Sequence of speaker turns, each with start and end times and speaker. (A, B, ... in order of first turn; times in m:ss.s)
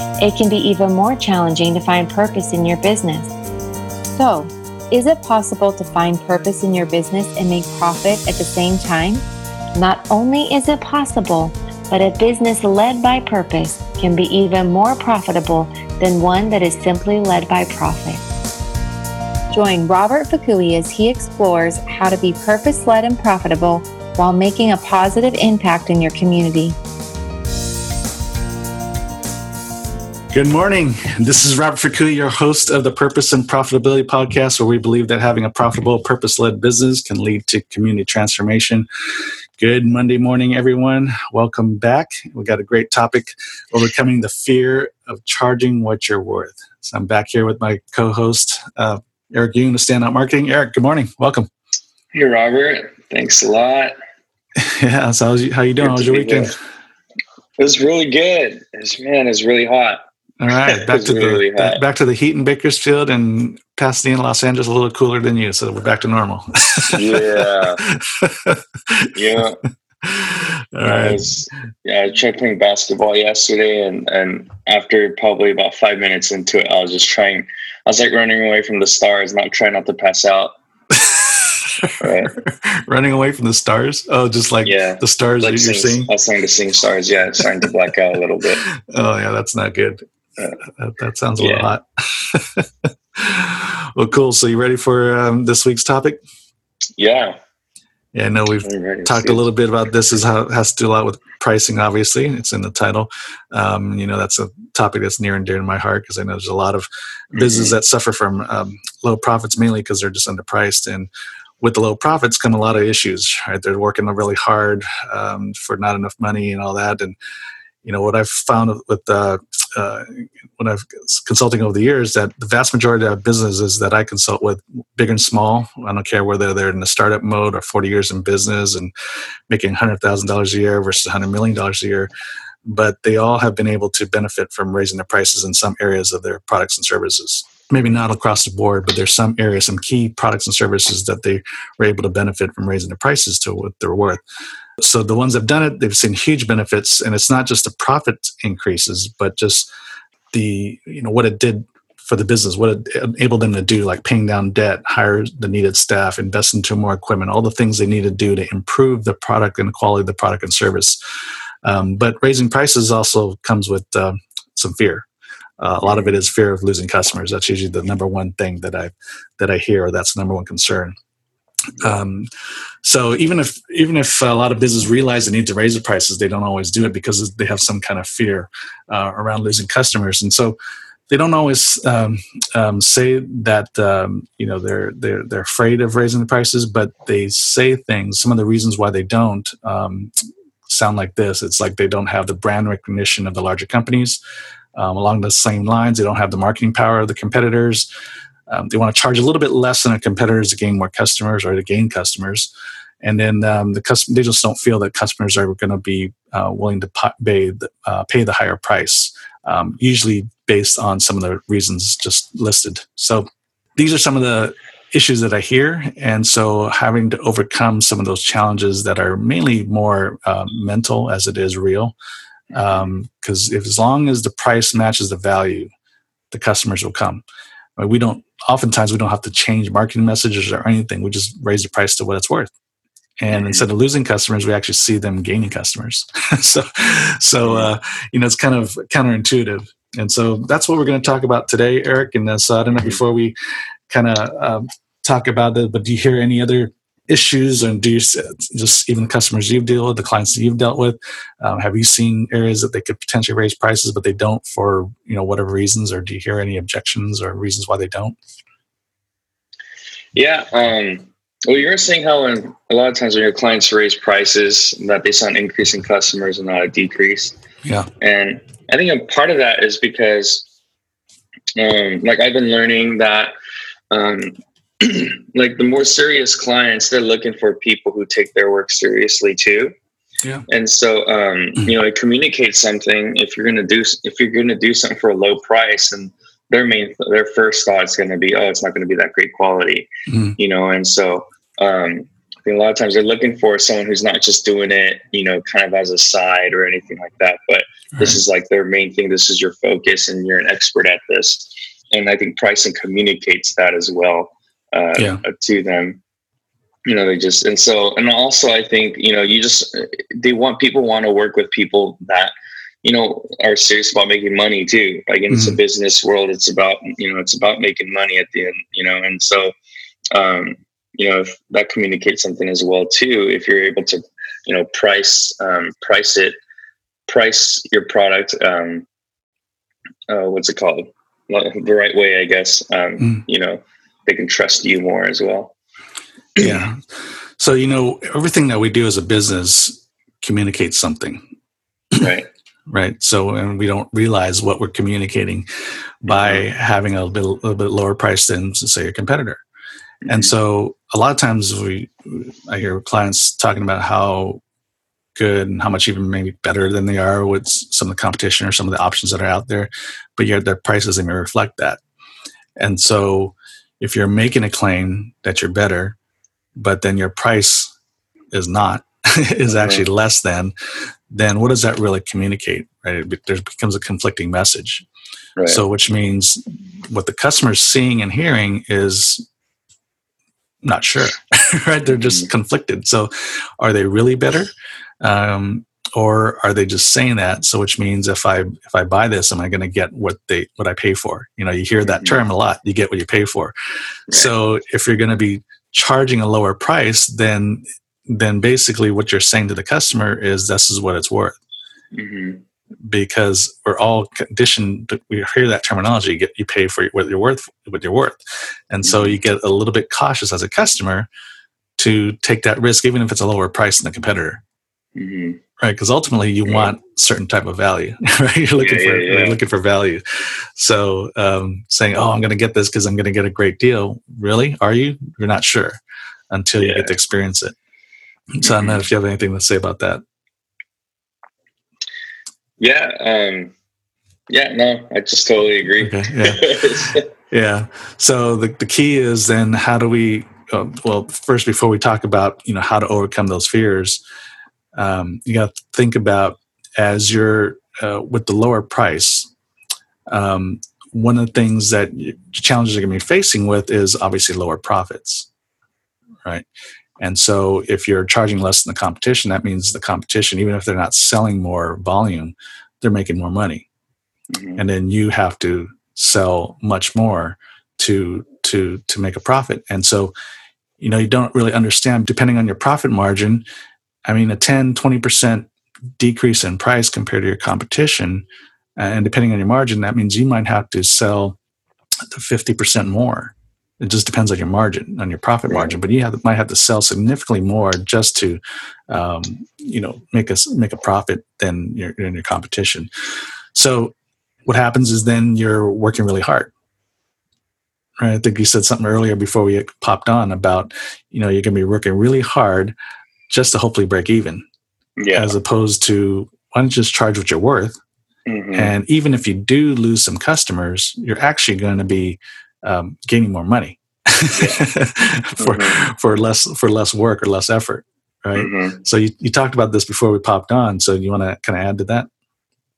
0:00.2-0:03.3 A
0:04.2-0:09.2 A
0:09.8-0:18.2 A
0:19.5-0:26.8 A
0:30.3-0:38.9 B
0:39.6-0:51.5 B
0:52.1-0:54.0 C
0:54.6-0:56.6 B
0:55.8-0:56.5 C
0:57.6-1:00.0 C
1:00.4-1:09.4 B
1:00.7-1:01.8 C
1:07.0-1:07.8 C
1:09.1-1:09.6 C
1:10.0-1:11.2 B
1:10.8-1:20.5 C
1:20.9-1:26.1 B
1:22.0-1:22.3 C
1:24.6-1:28.6 C
1:28.7-1:30.0 B
1:30.6-1:36.2 B
1:31.4-1:31.7 C
1:37.0-1:37.4 C
1:38.1-1:51.1 B
1:38.6-1:39.4 C
1:47.4-1:47.8 C
1:51.6-1:57.2 B
1:57.8-2:08.9 B
2:09.5-2:12.1 B
2:12.6-2:24.2 B
2:24.8-2:29.7 B
2:30.3-2:41.0 B
2:41.6-2:45.1 B
2:45.6-2:51.0 B
2:45.8-2:46.2 C
2:51.8-2:52.3 B
2:52.8-3:00.6 B
3:01.1-3:10.1 B
3:10.7-3:14.2 B
3:14.8-3:17.9 B
3:18.5-3:22.5 B
3:23.0-3:42.0 B
3:42.5-3:45.7 B
3:46.3-3:47.2 B
3:47.8-3:52.5 B
3:53.2-4:03.4 B
3:53.3-3:53.6 C
3:57.4-3:57.7 C
4:03.9-4:18.2 B
4:20.1-4:27.4 C
4:28.0-4:30.5 C
4:31.6-4:33.3 C
4:33.9-4:39.7 C
4:40.5-5:06.0 C
4:50.1-4:50.4 B
4:58.0-4:58.2 B
5:05.0-5:05.2 B
5:06.9-5:12.3 C
5:12.8-5:19.5 C
5:15.3-5:15.6 B
5:20.1-5:26.4 C
5:27.1-5:28.9 C
5:30.1-5:35.5 C
5:36.4-5:36.8 B
5:37.4-5:41.2 B
5:42.0-5:42.3 C
5:42.7-5:45.5 B
5:46.0-5:49.4 B
5:46.1-5:46.4 C
5:50.0-5:50.3 C
5:50.1-5:54.4 B
5:55.2-6:01.8 B
6:02.6-6:06.0 B
6:06.6-6:07.7 B
6:08.3-6:10.5 B
6:09.5-6:09.8 C
6:11.1-6:14.9 B
6:15.4-6:15.6 C
6:15.5-6:19.2 B
6:20.6-6:33.5 B
6:21.9-6:22.3 C
6:31.8-6:32.2 C
6:34.1-6:41.4 B
6:41.9-6:42.4 C
6:42.9-6:48.2 B
6:48.7-6:51.1 B
6:48.8-6:49.2 C
6:51.8-6:54.4 B
6:55.0-6:55.4 C
6:55.6-7:05.8 B
6:56.5-6:56.7 C
6:58.6-6:59.4 C
7:06.3-7:07.5 B
7:06.6-7:06.9 C
7:08.4-7:10.0 B
7:08.4-7:08.9 C
7:12.6-7:13.5 C
7:14.3-7:17.1 C
7:15.8-7:16.5 B
7:17.3-7:24.0 B
7:24.8-7:29.3 B
7:30.1-7:35.3 B
7:37.0-7:43.6 B
7:44.3-7:44.6 C
7:44.6-7:50.1 B
7:50.8-7:53.4 B
7:54.0-7:55.5 B
7:56.0-7:58.2 B
7:58.8-8:01.4 B
8:02.1-8:12.9 B
8:05.5-8:05.8 C
8:13.5-8:14.0 B
8:14.5-8:16.5 B
8:18.0-8:22.8 B
8:23.3-8:24.4 B
8:25.0-8:25.4 C
8:25.1-8:27.8 B
8:28.3-8:28.7 C
8:28.5-8:42.1 B
8:34.3-8:34.6 C
8:35.4-8:35.8 C
8:38.4-8:38.8 C